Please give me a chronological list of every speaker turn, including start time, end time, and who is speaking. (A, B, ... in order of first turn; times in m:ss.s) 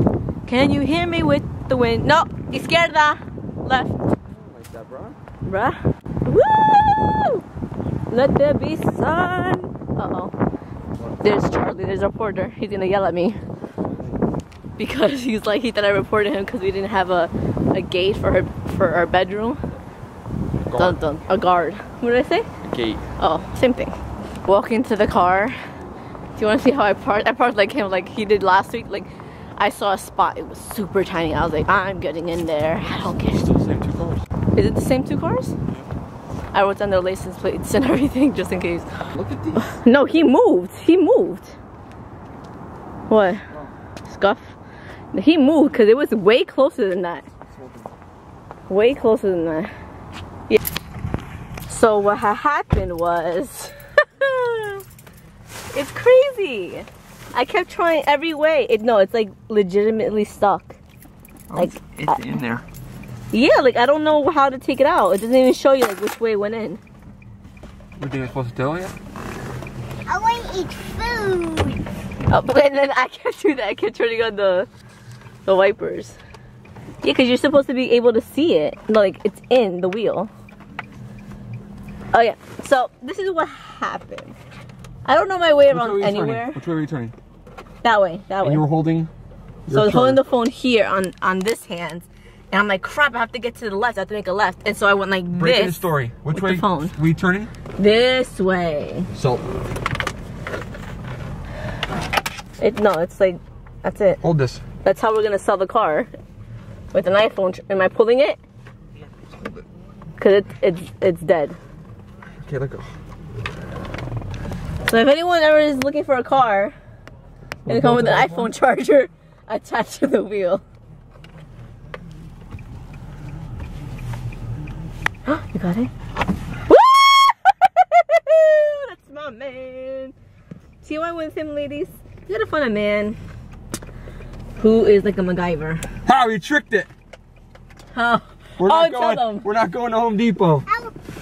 0:00.4-0:04.0 A
0:04.3-0:05.2 B
0:05.4-0:07.4 A
0:08.1-0:10.3 A
0:11.0-0:11.2 B
0:11.2-0:13.4 A
0:13.8-0:14.2 B
0:14.8-0:19.6 A
0:20.5-0:21.0 B
0:20.8-0:22.5 A
0:22.6-0:23.0 B
0:23.2-0:25.6 A
0:26.4-0:33.4 A
0:32.8-0:34.2 B
0:34.5-0:35.5 A
0:36.5-0:39.0 A
0:39.1-0:39.8 B
0:39.6-0:41.5 A
0:43.1-0:43.4 A
0:44.1-0:44.6 A
0:45.1-0:47.2 A
0:47.5-0:47.9 B
0:48.7-0:49.7 A
0:51.7-0:54.8 A
0:55.7-1:00.8 A
1:01.5-1:02.6 B
1:01.6-1:02.2 A
1:03.3-1:06.8 A
1:08.0-1:08.9 B
1:10.1-1:11.8 C
1:12.3-1:14.7 A
1:15.4-1:16.2 A
1:17.0-1:20.3 A
1:22.1-1:24.3 A
1:25.0-1:26.6 A
1:25.7-1:27.1 B
1:27.8-1:28.6 A
1:28.4-1:29.1 B
1:29.7-1:30.2 B
1:29.7-1:37.0 A
1:35.4-1:37.5 B
1:37.8-1:39.1 A
1:39.1-1:39.5 B
1:42.6-1:44.2 A
1:44.2-1:44.6 B
1:44.8-1:46.1 A
1:46.9-1:48.4 A
1:50.2-1:51.6 A
1:52.4-1:52.9 B
1:54.8-1:56.7 A
1:57.6-1:58.5 B
1:57.7-2:00.6 A
2:05.3-2:05.9 A
2:06.7-2:10.1 A
2:10.8-2:13.2 A
2:14.6-2:15.8 A
2:16.0-2:16.9 B
2:17.9-2:19.5 A
2:18.6-2:20.6 B
2:20.7-2:20.9 C